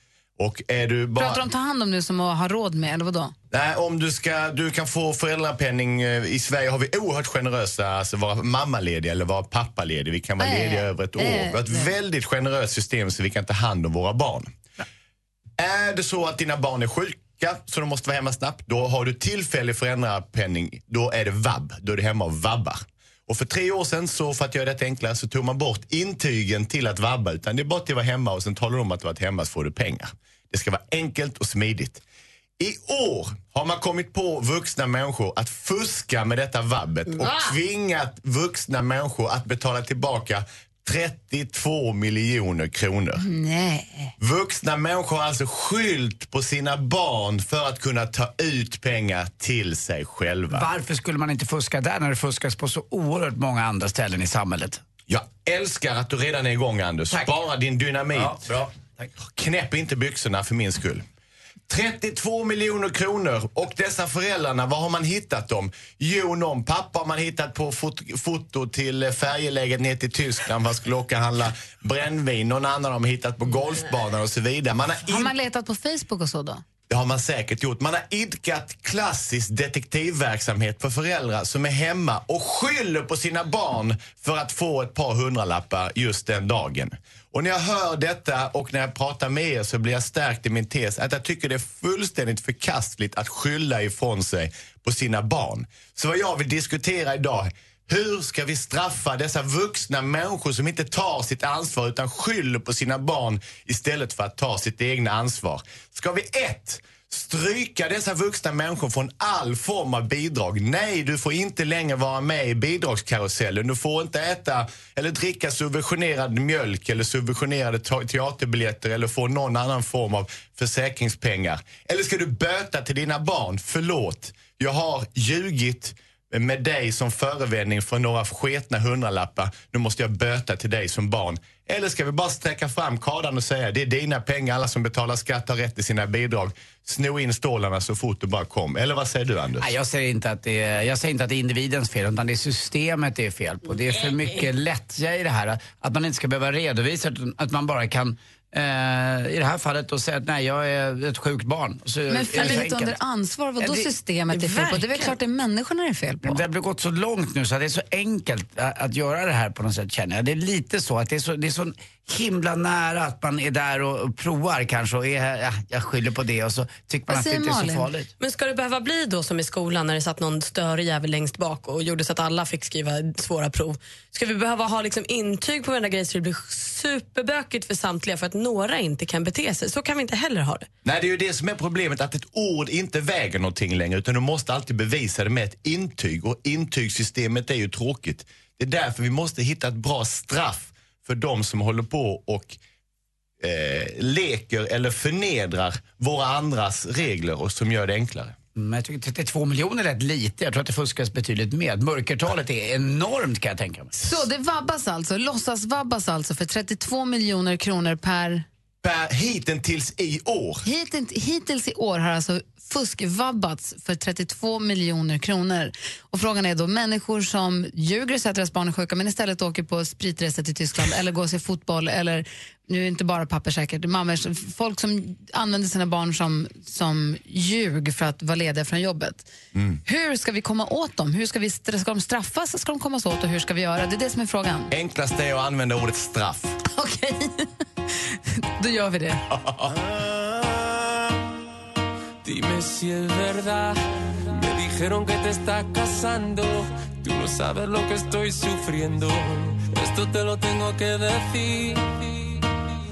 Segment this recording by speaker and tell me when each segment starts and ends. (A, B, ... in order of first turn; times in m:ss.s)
0:00.4-0:01.4 A
0:01.2-0:03.3 B
0:03.5-0:14.6 A
0:10.4-0:11.9 B
0:15.6-0:32.0 A
0:32.6-0:43.2 A
0:37.2-0:37.5 B
0:43.2-0:44.1 B
0:44.2-0:50.7 A
0:50.5-0:54.8 C
0:55.1-0:58.6 A
0:57.1-0:57.4 C
0:58.1-0:59.1 C
0:59.2-1:01.0 A
1:01.7-1:15.3 A
1:15.1-1:16.6 B
1:16.9-2:19.7 A
2:19.6-2:33.0 C
2:32.1-2:36.4 B
2:33.6-2:33.9 C
2:34.3-2:35.1 D
2:36.2-2:48.1 C
2:47.1-2:47.9 B
2:48.2-3:00.7 D
3:00.8-3:12.6 A
3:13.4-3:18.4 A
3:18.6-3:24.0 C
3:23.9-3:28.4 B
3:28.8-3:30.6 A
3:30.6-3:49.3 B
3:49.6-3:49.8 A
3:49.8-3:54.7 B
3:54.7-3:56.6 A
3:56.6-3:59.3 B
3:59.3-3:59.9 A
4:02.2-4:12.4 E